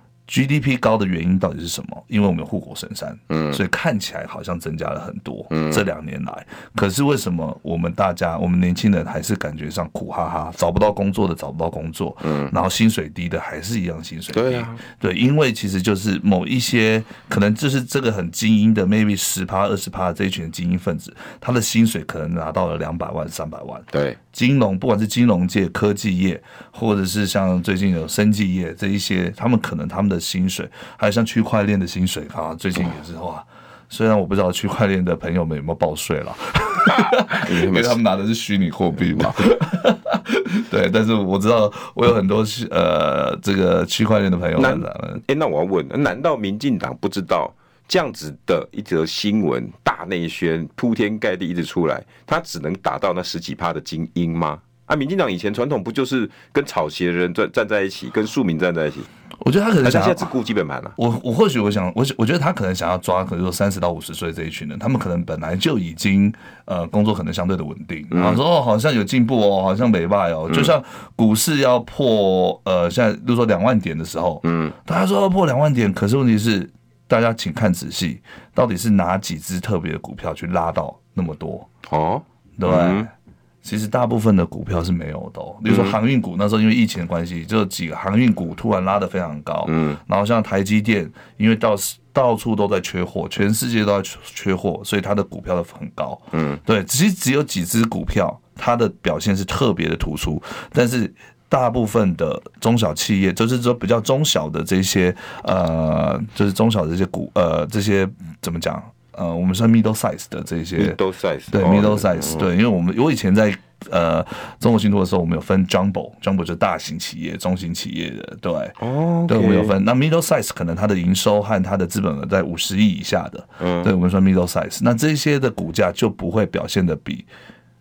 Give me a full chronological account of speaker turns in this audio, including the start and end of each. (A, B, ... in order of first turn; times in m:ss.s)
0:00.3-0:45.2 A
0:03.3-0:03.6 B
0:05.5-0:05.8 B
0:12.2-0:12.5 B
0:14.3-0:14.8 B
0:23.9-0:24.2 B
0:36.9-0:38.0 B
0:44.6-0:59.1 B
0:59.4-1:00.3 A
0:59.8-1:01.0 B
1:01.0-1:21.7 A
1:08.1-1:08.4 B
1:14.4-1:14.8 B
1:21.9-1:23.1 B
1:22.6-1:23.1 A
1:23.6-1:51.0 A
1:25.7-1:26.0 B
1:29.6-1:30.0 B
1:36.3-1:36.6 B
1:50.8-1:52.5 B
1:51.5-1:58.8 A
1:58.8-1:59.8 B
1:59.3-2:07.3 A
2:03.6-2:03.9 B